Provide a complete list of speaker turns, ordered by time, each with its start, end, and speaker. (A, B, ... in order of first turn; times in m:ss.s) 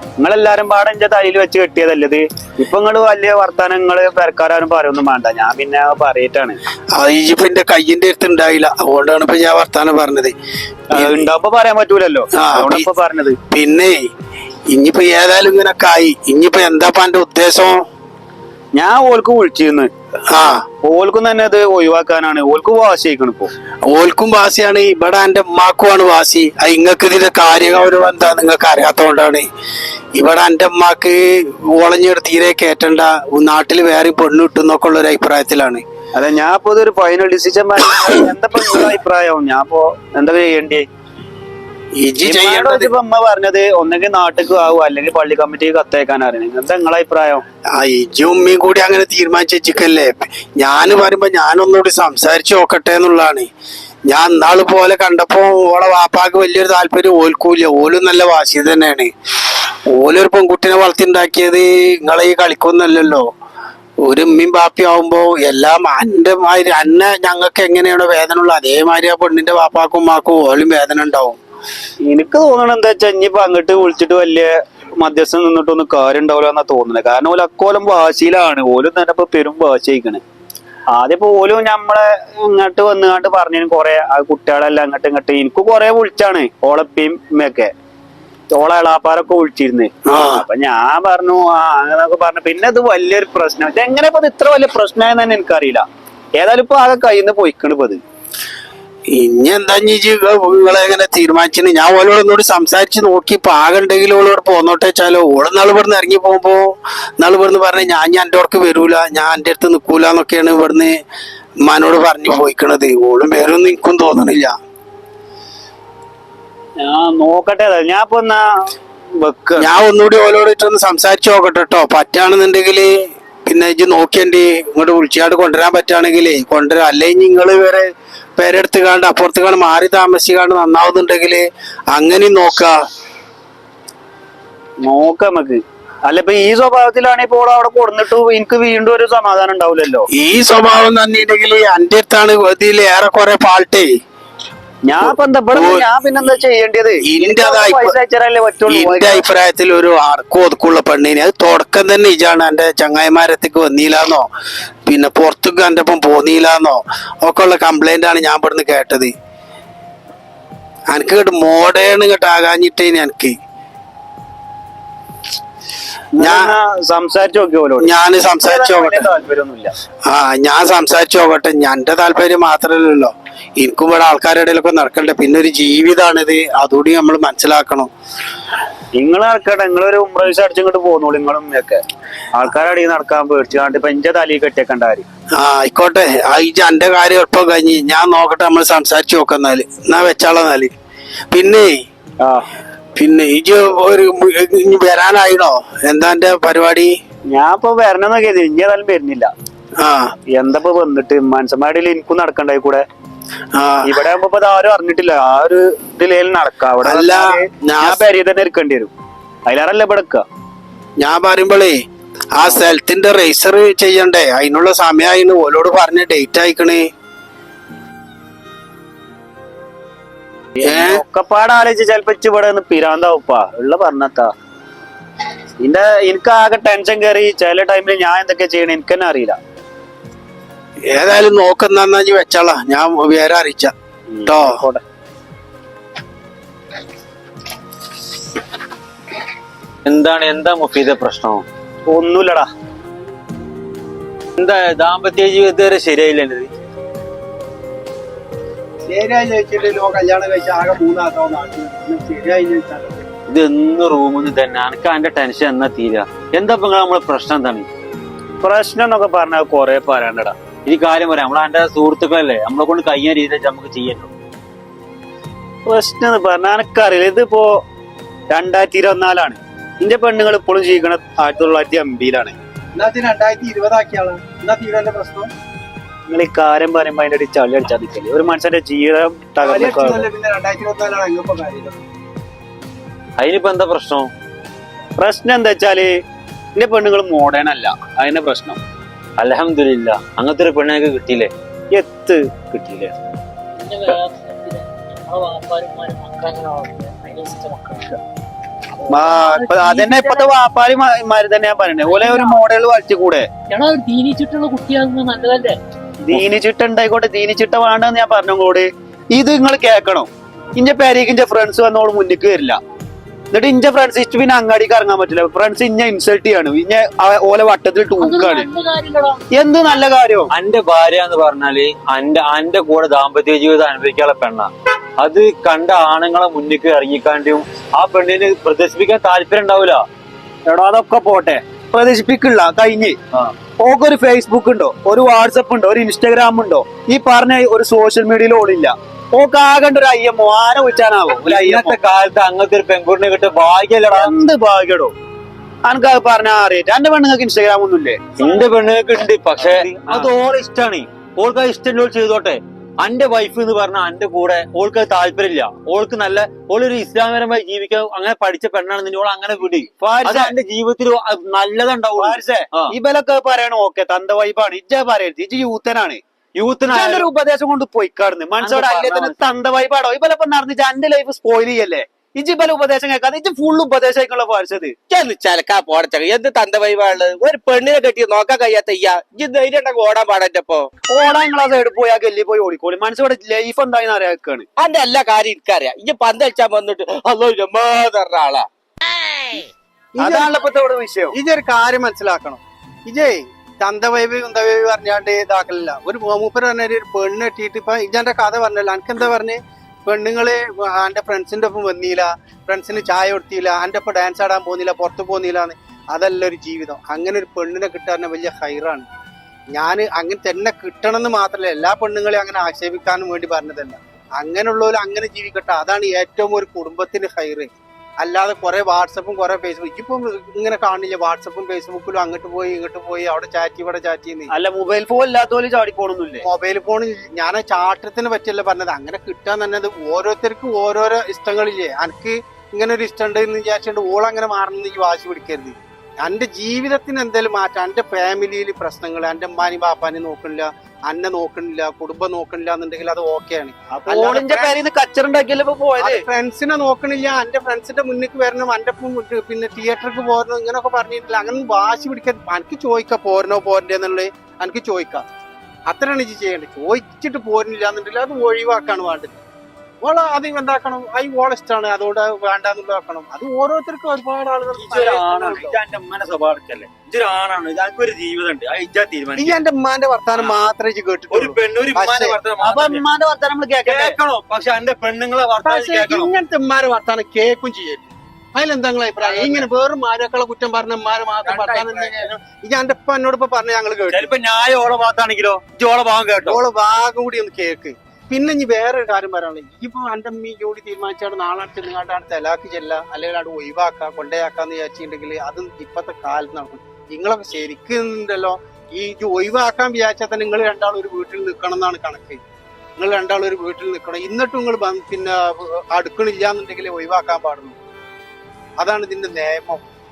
0:00.2-0:06.6 A
0:06.9-0:10.3 B
0:10.9-0:11.3 B
0:10.9-0:13.4 A
0:12.4-0:12.8 B
0:13.5-0:14.0 B
0:14.7-0:17.8 B
0:18.7-0:19.9 A
0:20.3-0:20.6 B
0:20.8-0:23.5 A
0:23.9-0:29.5 B
0:30.1-0:35.8 B
0:36.1-0:40.8 A
0:42.0-0:42.9 B
0:42.2-0:47.4 A
0:47.7-0:53.5 B
0:54.1-0:59.1 B
0:59.9-1:03.2 B
1:04.0-1:11.4 B
1:12.1-1:20.2 A
1:20.9-1:27.7 A
1:28.5-1:35.8 A
1:30.1-1:30.4 B
1:36.4-1:38.0 A
1:39.1-1:46.7 B
1:47.2-1:50.9 B
1:51.6-1:54.5 B
1:56.8-1:58.7 A
1:59.2-1:59.7 A
1:59.6-2:02.9 B
2:03.4-2:12.7 B
2:14.8-2:20.0 A
2:20.1-2:23.9 B
2:24.9-2:29.2 A
2:25.0-2:25.9 B
2:27.0-2:27.9 B
2:28.7-2:34.2 B
2:34.8-2:39.1 B
2:40.9-2:43.4 B
2:46.2-2:47.9 A
2:46.2-2:46.5 B
2:47.8-2:49.1 B
2:48.4-2:49.7 A
2:50.1-2:57.9 B
2:59.0-3:01.8 A
3:02.4-3:05.0 A
3:05.4-3:10.7 B
3:11.3-3:11.7 B
3:12.2-3:12.5 A
3:13.0-3:16.9 B
3:17.3-3:19.3 A
3:19.8-3:20.1 B
3:20.3-3:22.8 A
3:23.5-3:23.9 B
3:23.8-3:28.9 A
3:26.8-3:28.0 B
3:29.5-3:30.2 A
3:31.0-3:31.8 B
3:32.4-3:36.8 B
3:40.6-3:44.3 A
3:40.6-3:41.0 B
3:45.6-3:49.4 A
3:50.9-3:53.7 B
3:54.1-3:54.8 A
3:54.2-3:54.6 B
3:59.8-4:01.4 C
4:01.9-4:02.5 A
4:04.4-4:06.5 C
4:08.9-4:13.0 D
4:13.3-4:17.6 C
4:18.4-4:20.3 A
4:20.6-4:24.1 C
4:25.7-4:27.6 A
4:28.3-4:32.3 A
4:32.7-4:35.3 D
4:36.1-4:40.0 A
4:39.4-4:41.8 D
4:43.2-4:44.1 C
4:45.0-4:45.9 A
4:46.6-4:48.6 A
4:49.2-4:51.3 C
4:51.7-4:52.9 A
4:53.6-4:58.0 C
4:58.8-5:00.3 C
4:58.9-5:03.3 A
5:02.0-5:02.4 C
5:03.5-5:05.6 C
5:06.0-5:12.6 A
5:13.3-5:18.5 A
5:18.0-5:19.2 C
5:19.3-5:20.3 A
5:20.3-5:24.5 C
5:25.0-5:29.8 C
5:30.4-5:33.0 A
5:33.6-5:41.8 A
5:41.2-5:44.1 C
5:43.9-5:44.9 A
5:45.6-5:48.2 A
5:48.2-6:02.7 C
5:49.4-5:50.1 A
5:59.8-6:00.3 A
6:02.0-6:06.0 A
6:06.4-6:07.0 C
6:06.7-6:14.7 A
6:08.4-6:09.1 C
6:14.9-6:20.7 E
6:20.9-6:24.4 A
6:24.6-6:28.5 E
6:30.0-6:30.4 D
6:30.0-6:31.2 A
6:31.1-6:48.8 D
6:49.5-7:04.3 D
7:04.3-7:06.2 A
7:06.2-7:24.6 D
7:23.7-7:26.0 A
7:25.8-7:35.0 D
7:35.7-7:39.2 D
7:39.8-7:45.6 D
7:44.6-7:49.4 C
7:49.1-7:52.2 D
7:51.1-7:52.8 C
7:52.4-7:54.0 A
7:53.6-7:56.1 C
7:55.4-8:04.1 D
7:59.0-7:59.4 C
8:01.2-8:02.1 C
8:03.9-8:06.4 C
8:06.2-8:22.2 D
8:22.8-8:27.6 D
8:28.6-8:29.6 D